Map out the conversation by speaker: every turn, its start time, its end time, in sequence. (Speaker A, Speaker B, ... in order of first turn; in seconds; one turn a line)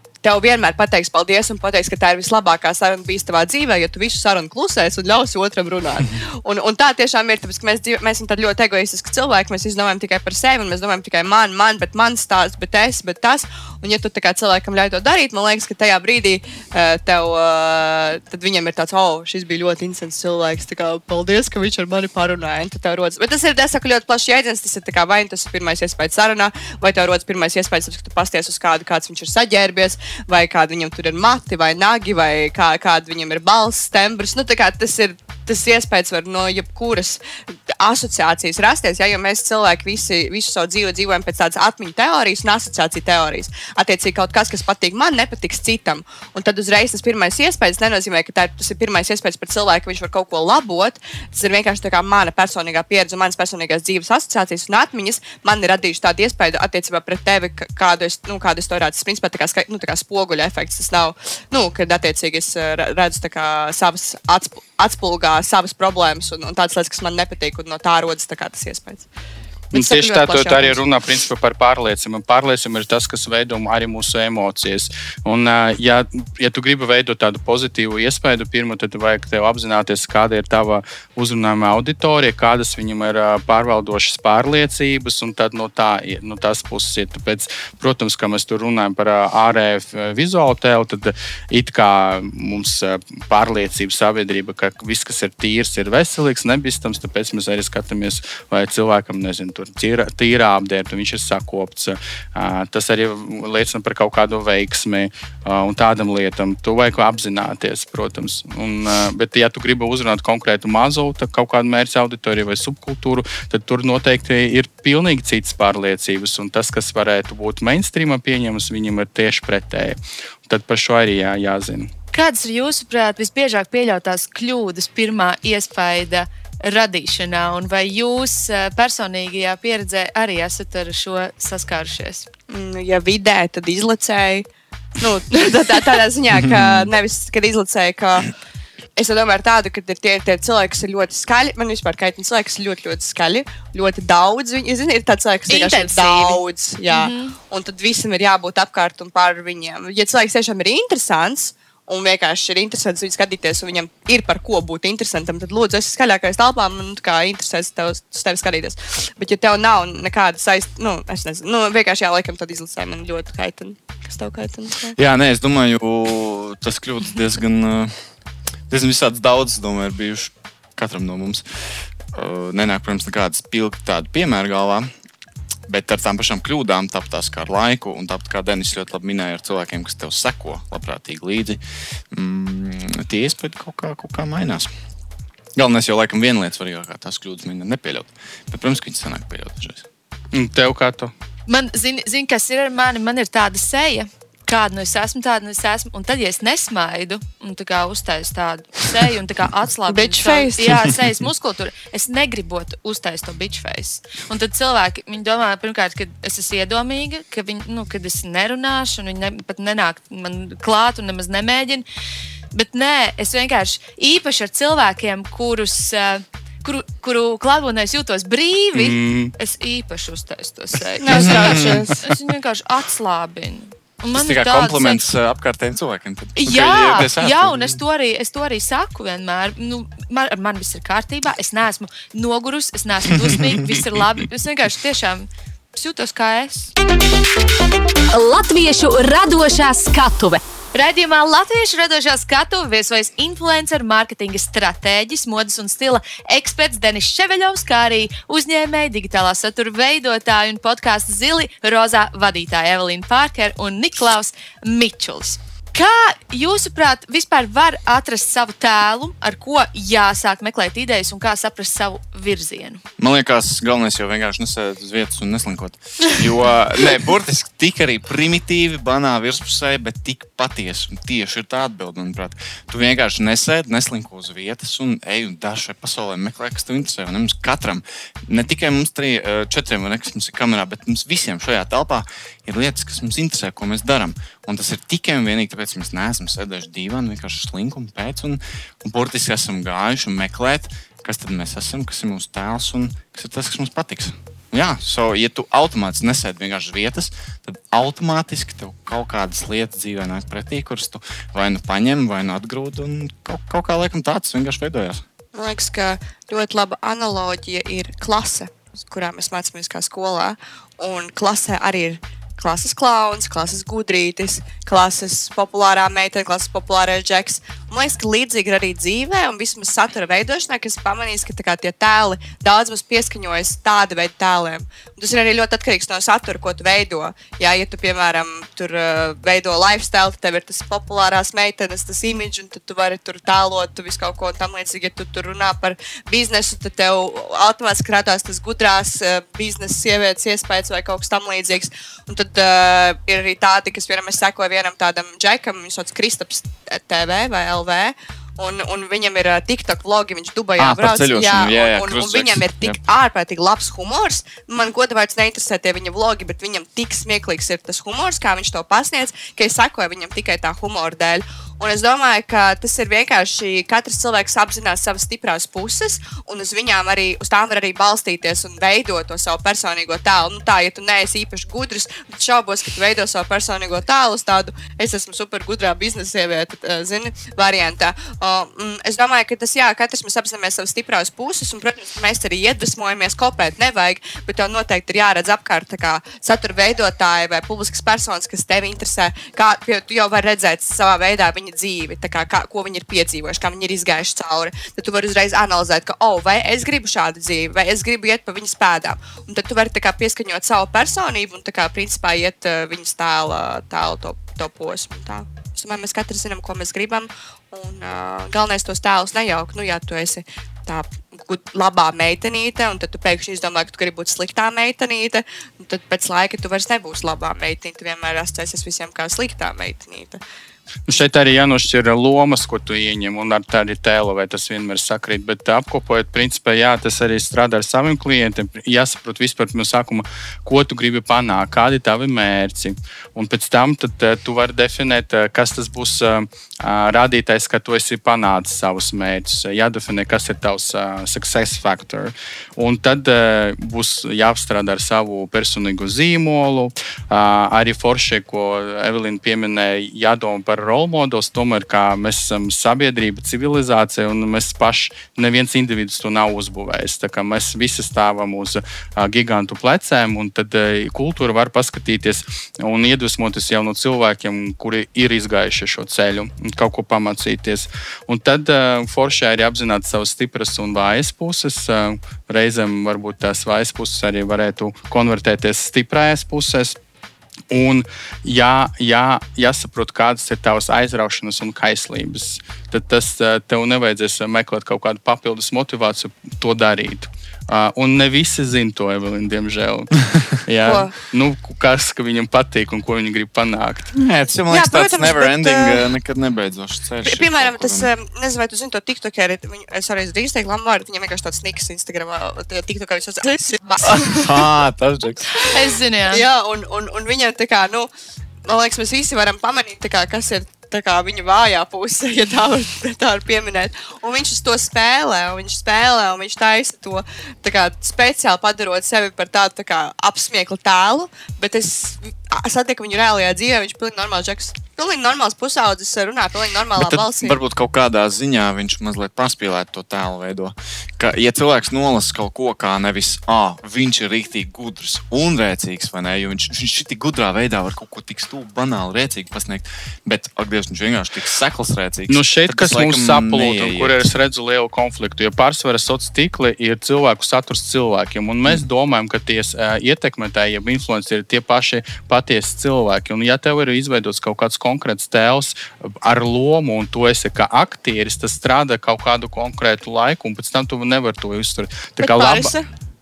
Speaker A: 0.2-69.1
Speaker B: 69.7-121.9
Speaker A: 69.7-70.8
Speaker C: 122.1-132.2
Speaker A: 132.5-138.3
Speaker D: 136.4-136.9
Speaker A: 139.0-165.0
Speaker C: 145.5-147.4
Speaker D: 164.9-167.9
Speaker D: 168.7-171.4
Speaker D: 172.1-174.9
Speaker D: 175.7-181.6
Speaker D: 182.1-184.7
Speaker D: 185.6-189.8
Speaker B: 190.3-191.1
Speaker C: 191.5-211.8
Speaker A: 199.9-200.9
Speaker C: 212.5-225.1
Speaker B: 218.8-219.3
Speaker A: 221.0-222.1
Speaker D: 221.1-221.9
Speaker D: 224.1-227.8
Speaker C: 226.4-236.7
Speaker E: 238.1-240.4
Speaker C: 240.7-262.8
Speaker D: 263.0-305.0
Speaker A: 305.4-420.2
Speaker D: 350.6-352.8
Speaker B: 420.9-476.8
Speaker B: 477.5-493.9
Speaker A: 490.6-490.9
Speaker D: 493.9-497.9
Speaker A: 494.5-495.8
Speaker A: 497.0-504.4
Speaker D: 503.8-505.4
Speaker C: 505.4-506.2
Speaker A: 506.1-507.9
Speaker A: 508.5-527.4
Speaker D: 526.8-544.1
Speaker B: 542.1-562.5
Speaker A: 562.0-562.7